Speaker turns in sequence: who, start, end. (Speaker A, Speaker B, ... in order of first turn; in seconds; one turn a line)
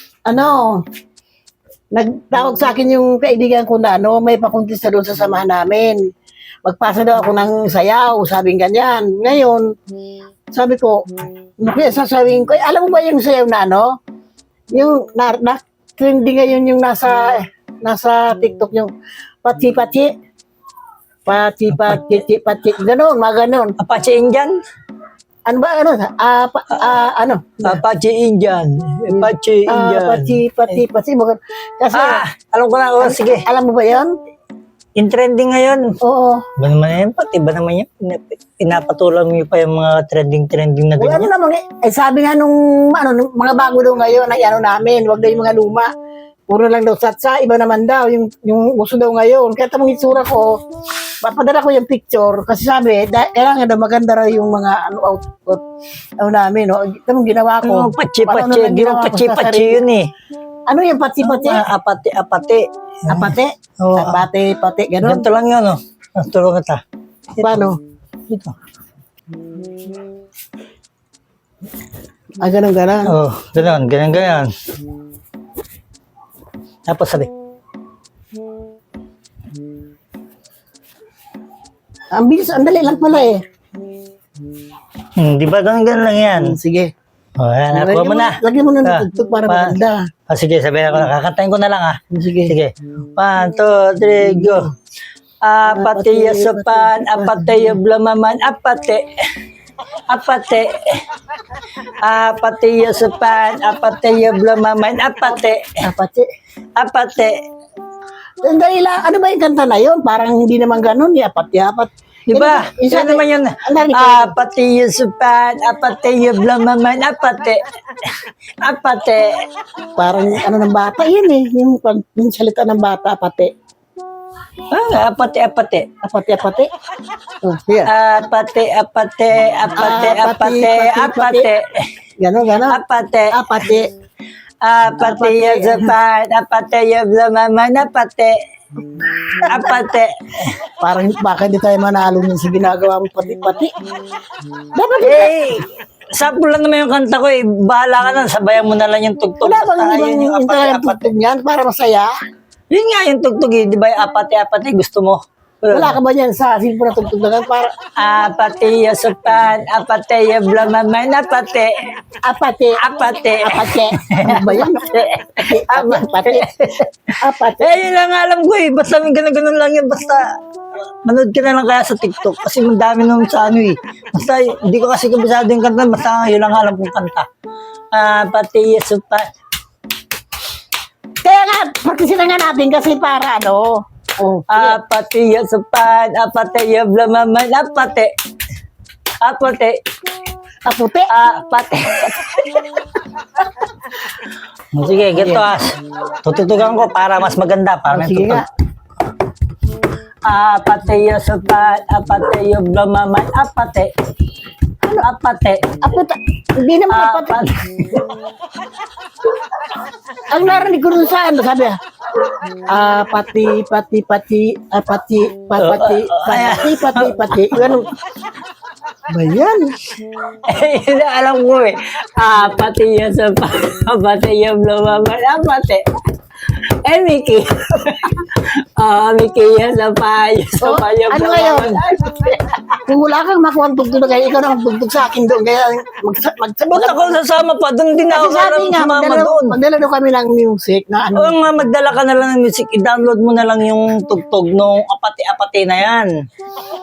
Speaker A: 0.3-0.8
Speaker A: 1.9-6.0
Speaker A: 6.6-9.7
Speaker A: 10.5-14.0
Speaker A: 14.7-18.9
Speaker A: 19.4-20.1
Speaker A: 21.3-23.8
Speaker B: 23.8-24.6
Speaker A: 25.5-27.8
Speaker B: 27.6-30.4
Speaker A: 29.1-32.3
Speaker B: 31.9-33.5
Speaker A: 33.0-34.1
Speaker B: 35.0-36.0
Speaker A: 36.0-36.5
Speaker B: 36.6-41.3
Speaker A: 41.0-45.9
Speaker A: 46.5-50.6
Speaker A: 51.2-55.6
Speaker A: 56.2-59.8
Speaker B: 57.6-60.1
Speaker A: 60.7-61.7
Speaker B: 61.2-64.2
Speaker A: 63.1-65.2
Speaker B: 65.0-66.8
Speaker A: 67.4-67.8
Speaker B: 68.3-68.5
Speaker A: 72.4-73.2
Speaker B: 73.1-74.5
Speaker B: 76.9-77.3
Speaker A: 82.1-83.4
Speaker B: 85.2-86.6
Speaker A: 86.3-86.9
Speaker B: 87.4-89.8
Speaker A: 87.7-90.1
Speaker B: 90.3-94.7
Speaker A: 92.1-92.5
Speaker B: 95.4-99.1
Speaker A: 95.7-97.7
Speaker B: 100.1-101.0
Speaker B: 102.0-105.8
Speaker A: 105.3-106.3
Speaker B: 106.8-107.4
Speaker A: 108.4-114.4
Speaker B: 112.3-119.3
Speaker A: 120.0-123.5
Speaker B: 124.7-125.9
Speaker A: 126.0-126.7
Speaker A: 127.4-127.9
Speaker B: 127.9-131.9
Speaker A: 129.8-131.5
Speaker A: 132.2-133.9
Speaker B: 132.7-133.4
Speaker B: 134.6-138.4
Speaker A: 134.9-135.9
Speaker B: 139.4-140.6
Speaker A: 140.8-143.7
Speaker A: 144.8-145.3
Speaker B: 145.0-151.1
Speaker A: 149.4-152.1
Speaker B: 152.7-156.0
Speaker A: 155.7-157.7
Speaker B: 158.0-161.8
Speaker A: 162.3-164.9
Speaker B: 162.8-170.2
Speaker A: 165.4-167.8
Speaker B: 171.1-177.3
Speaker B: 177.9-179.3
Speaker A: 181.2-184.8
Speaker B: 184.5-188.1
Speaker B: 189.2-189.8
Speaker A: 190.7-191.1
Speaker B: 191.1-192.7
Speaker B: 194.7-198.4
Speaker A: 195.2-195.5
Speaker A: 197.9-198.5
Speaker B: 200.3-203.9
Speaker B: 205.0-205.8
Speaker A: 205.8-207.4
Speaker B: 206.9-208.1
Speaker A: 210.3-211.8
Speaker A: 212.7-217.9
Speaker B: 215.6-217.8
Speaker A: 219.1-219.7
Speaker B: 220.5-225.8
Speaker B: 226.5-232.6
Speaker A: 230.6-231.8
Speaker A: 232.8-237.2
Speaker B: 236.7-239.6
Speaker A: 238.1-241.5
Speaker B: 241.2-246.1